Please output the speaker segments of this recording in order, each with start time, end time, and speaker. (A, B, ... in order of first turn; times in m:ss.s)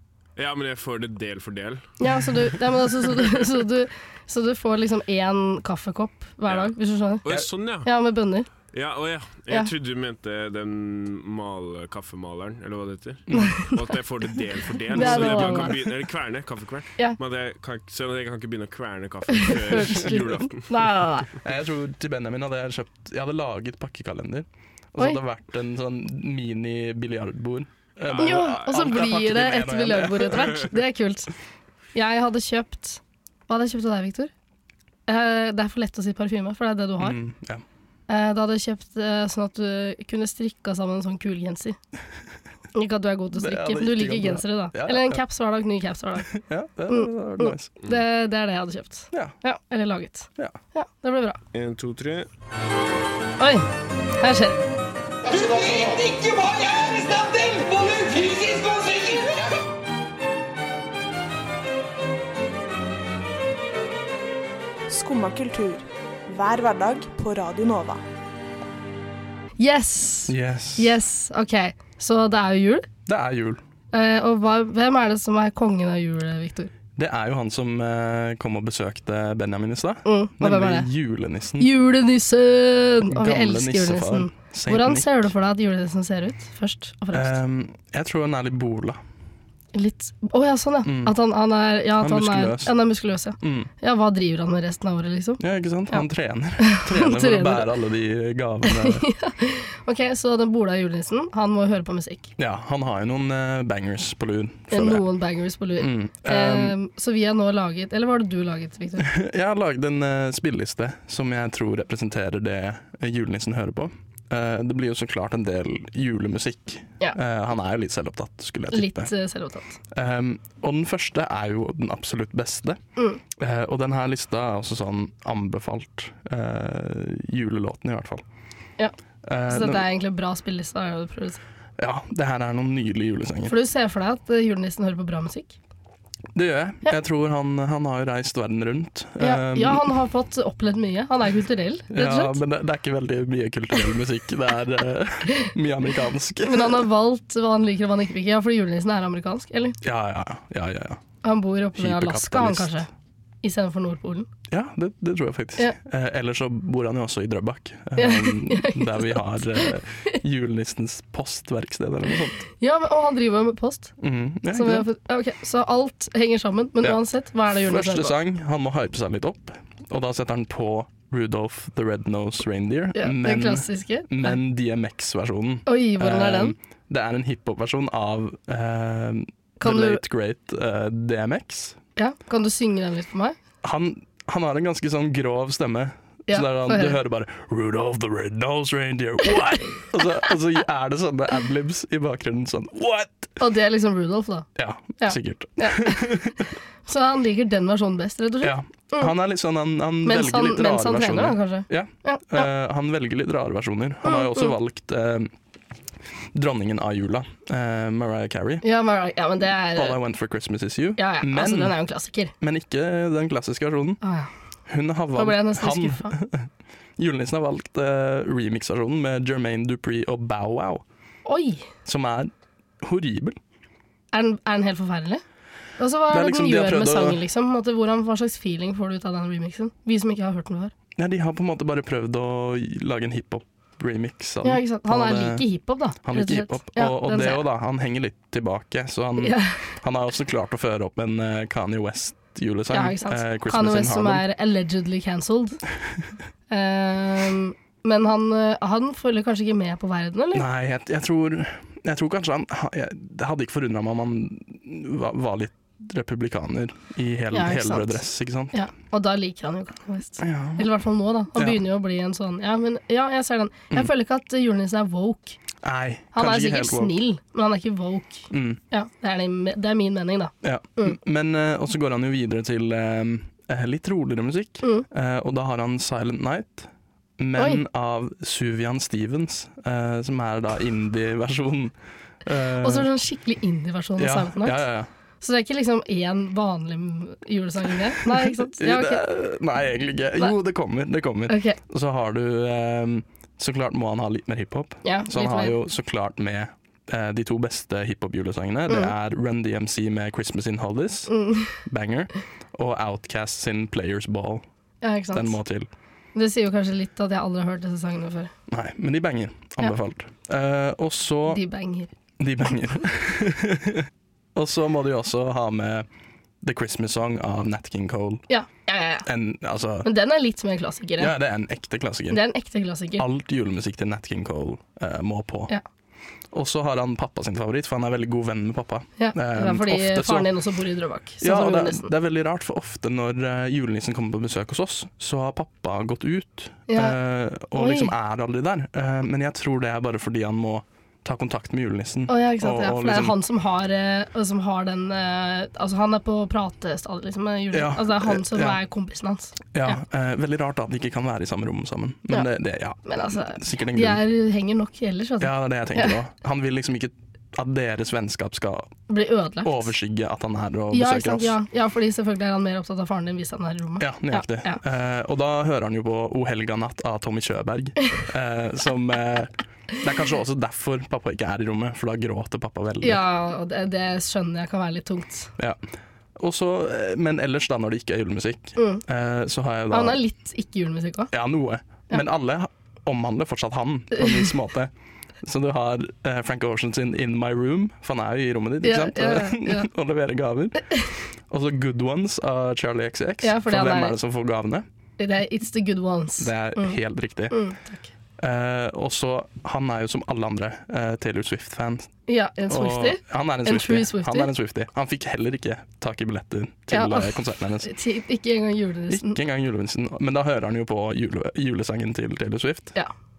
0:00.4-0:02.0 A
0:02.0-0:07.2 B
0:06.5-0:07.9 A
0:07.8-0:08.5 B
0:08.7-0:20.7 A
0:13.3-0:13.6 C
0:13.4-0:13.7 B
0:14.9-0:15.7 B
0:15.0-0:15.9 C
0:19.4-0:21.4 B
0:21.4-0:30.7 C
0:28.1-0:28.9 A
0:28.2-0:31.3 B
0:31.9-0:34.3 B
0:35.1-0:37.2 B
0:37.0-0:37.6 C
0:38.1-0:41.8 B
0:42.8-0:46.3 B
0:43.3-0:45.2 C
0:46.3-0:47.7 C
0:46.9-0:51.4 B
0:51.5-0:52.3 A
0:53.4-0:54.6 B
0:55.2-0:59.6 D
1:04.9-1:08.0 D
1:09.6-1:12.9 B
1:10.3-1:11.0 C
1:13.1-1:13.6 C
1:13.9-1:16.7 B
1:17.0-1:21.7 C
1:20.0-1:20.9 B
1:21.6-1:27.4 B
1:23.1-1:25.3 C
1:27.1-1:29.0 C
1:29.7-1:36.1 B
1:30.8-1:31.2 C
1:32.0-1:32.8 C
1:33.4-1:33.7 C
1:35.4-1:39.0 C
1:36.6-1:37.7 B
1:38.6-1:42.3 B
1:42.4-1:45.0 C
1:44.7-1:49.1 B
1:45.8-1:46.8 C
1:49.0-1:59.1 C
1:58.7-1:59.8 B
1:59.9-2:02.8 C
2:03.3-2:08.2 C
2:09.2-2:09.9 C
2:09.5-2:11.4 B
2:11.8-2:13.6 C
2:13.5-2:15.6 B
2:16.4-2:20.0 C
2:19.2-2:22.4 B
2:21.9-2:26.9 C
2:26.4-2:29.8 B
2:29.8-2:31.0 C
2:31.2-2:32.9 B
2:31.8-2:32.8 C
2:33.4-2:34.3 B
2:34.5-2:42.4 C
2:38.0-2:39.8 B
2:42.4-2:43.9 B
2:44.0-2:44.9 C
2:44.5-2:48.1 B
2:46.8-3:01.8 C
2:53.0-2:54.4 B
2:55.6-2:56.5 B
2:59.6-3:00.0 B
3:02.0-3:03.4 B
3:03.6-3:13.3 C
3:06.3-3:07.0 B
3:13.4-3:14.5 B
3:14.6-3:16.5 C
3:15.0-3:16.2 B
3:16.9-3:19.1 B
3:18.4-3:25.3 C
3:20.0-3:22.5 B
3:24.0-3:24.5 B
3:26.3-3:28.6 C
3:28.6-3:30.0 B
3:29.7-3:31.8 C
3:31.0-3:32.3 B
3:32.4-3:34.0 C
3:34.0-3:34.3 B
3:34.7-3:40.8 C
3:35.2-3:36.1 B
3:41.3-3:41.7 B
3:41.9-3:43.4 C
3:44.1-3:45.2 B
3:45.8-3:50.7 B
3:46.1-3:47.2 C
3:51.0-3:55.5 C
3:54.4-3:57.4 B
3:56.0-4:04.2 C
3:59.2-3:59.7 B
4:02.7-4:05.6 B
4:06.5-4:10.5 B
4:10.3-4:18.6 C
4:17.3-4:25.4 B
4:20.2-4:20.7 C
4:21.4-4:21.6 C
4:25.6-4:27.0 C
4:26.1-4:31.0 B
4:28.3-4:28.6 C
4:30.4-4:42.9 C
4:37.4-4:37.6 B
4:42.6-4:44.6 B
4:44.0-4:44.9 C
4:45.2-4:49.0 B
4:48.0-5:04.4 C
4:51.3-4:51.6 B
4:54.8-4:55.6 B
5:01.1-5:01.6 B
5:04.8-5:05.4 B
5:05.1-5:05.7 C
5:06.1-5:08.3 B
5:08.5-5:11.4 C
5:11.3-5:11.9 B
5:12.2-5:15.9 C
5:16.4-5:18.3 C
5:18.3-5:19.1 B
5:19.0-5:19.9 C
5:19.8-5:21.1 B
5:21.0-5:22.2 C
5:22.1-5:23.0 B
5:23.0-5:25.5 C
5:26.3-5:30.4 C
5:29.0-5:31.9 B
5:31.2-5:43.2 C
5:36.7-5:37.0 B
5:37.6-5:37.9 B
5:42.1-5:49.8 B
5:47.5-5:48.6 C
5:49.5-5:54.0 C
5:52.8-5:56.0 B
5:55.2-5:58.7 C
5:58.9-5:59.7 B
5:59.4-6:01.4 C
6:00.7-6:04.6 B
6:03.8-6:13.0 C
6:12.8-6:15.3 B
6:16.2-6:20.0 C
6:18.6-6:18.8 B
6:19.7-6:21.1 B
6:21.1-6:24.7 C
6:25.2-6:34.6 C
6:28.6-6:29.7 B
6:33.2-6:34.0 B
6:35.0-6:36.8 B
6:36.2-6:37.4 C
6:37.3-6:37.9 B
6:38.2-6:41.9 C
6:42.1-6:44.3 B
6:42.5-6:47.7 C
6:46.7-6:49.2 B
6:48.9-6:52.8 C